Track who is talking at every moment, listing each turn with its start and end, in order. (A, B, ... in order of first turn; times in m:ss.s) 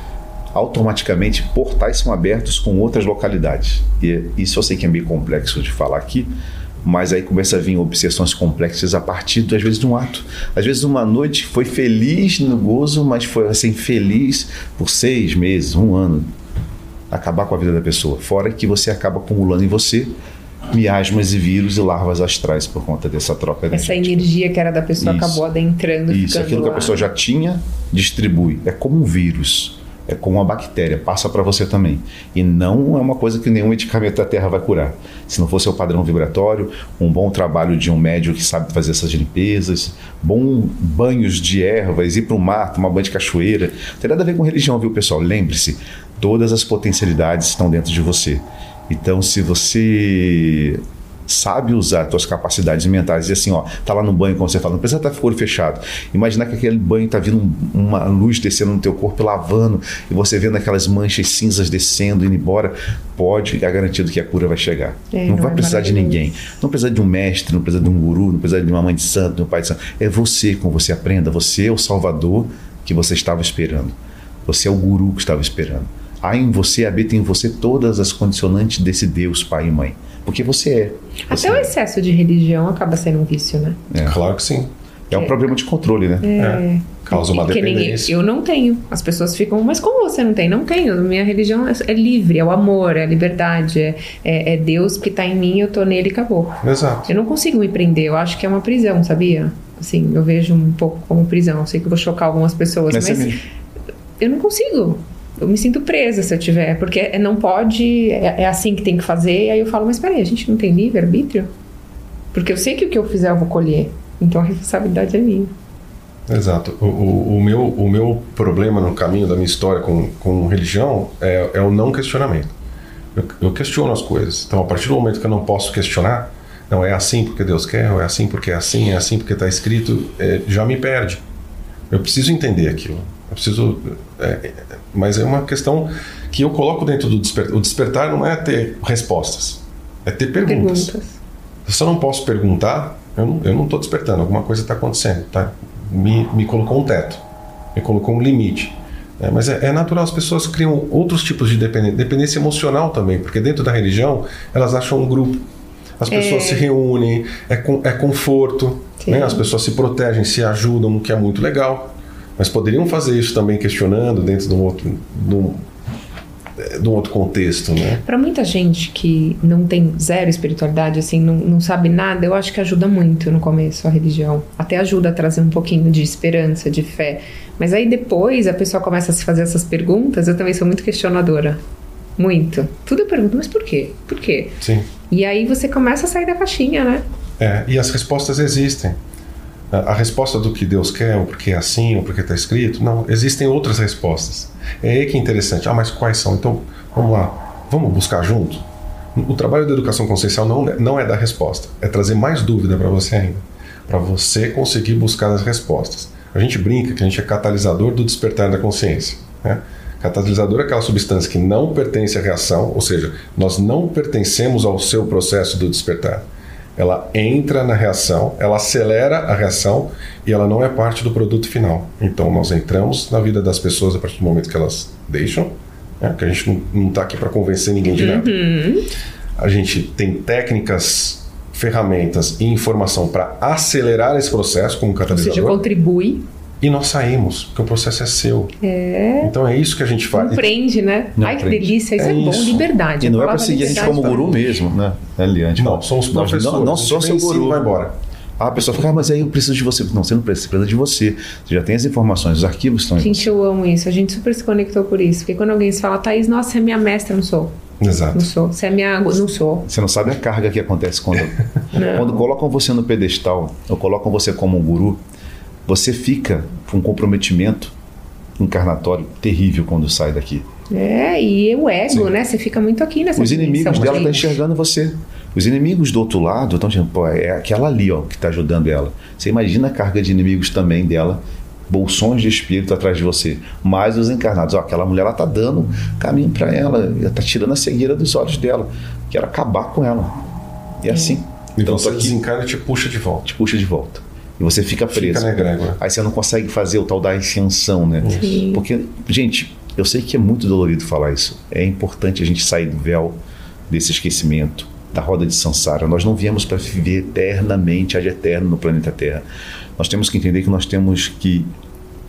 0:00.5-0:06.3 A
0:06.8-0:16.3 A
0:17.1-0:20.2 A
0:20.7-0:24.3 A
0:23.7-0:27.1 B
0:25.0-0:25.4 A
0:26.1-1:21.7 A
1:05.1-1:06.3 B
1:21.3-1:23.8 B
1:23.9-1:24.2 A
1:24.0-1:24.7 C
1:25.1-1:26.3 A
1:26.2-1:43.4 B
1:26.4-1:28.1 C
1:36.6-1:37.1 C
1:42.9-1:43.4 A
1:44.2-1:51.5 B
1:52.3-1:55.5 B
1:56.3-2:02.5 C
2:03.2-2:11.2 C
2:11.9-2:20.9 C
2:20.4-2:21.2 B
2:21.7-2:27.2 C
2:27.8-2:35.4 C
2:36.0-2:45.6 C
2:36.1-2:36.7 B
2:39.0-2:39.4 B
2:46.6-2:48.0 C
2:48.0-3:01.6 B
3:02.2-3:04.6 B
3:04.6-3:04.9 C
3:05.1-3:07.0 B
3:07.4-3:09.0 C
3:09.7-3:18.6 C
3:19.2-3:48.4 C
3:48.0-3:48.9 B
3:49.4-3:55.6 C
3:55.1-3:56.2 B
3:56.6-3:58.5 C
3:58.6-3:59.3 B
3:59.2-4:00.5 C
4:00.1-4:04.6 B
4:01.2-4:01.7 A
4:02.0-4:02.7 C
4:03.0-4:07.6 A
4:03.7-4:04.0 C
4:05.6-4:08.0 C
4:08.4-4:13.3 A
4:13.0-4:17.6 B
4:17.8-4:18.3 C
4:18.1-4:19.7 B
4:19.7-4:25.0 A
4:21.7-4:22.2 B
4:25.7-4:27.7 A
4:28.4-4:30.5 A
4:30.7-4:34.3 B
4:33.2-4:50.2 A
4:33.7-4:34.3 C
4:50.8-4:52.2 A
4:50.9-4:51.2 B
4:51.6-4:53.3 C
4:53.3-5:03.2 A
4:54.9-4:55.8 C
4:58.0-4:58.4 C
4:58.1-4:58.6 B
5:03.7-5:09.2 A
5:09.8-5:11.5 A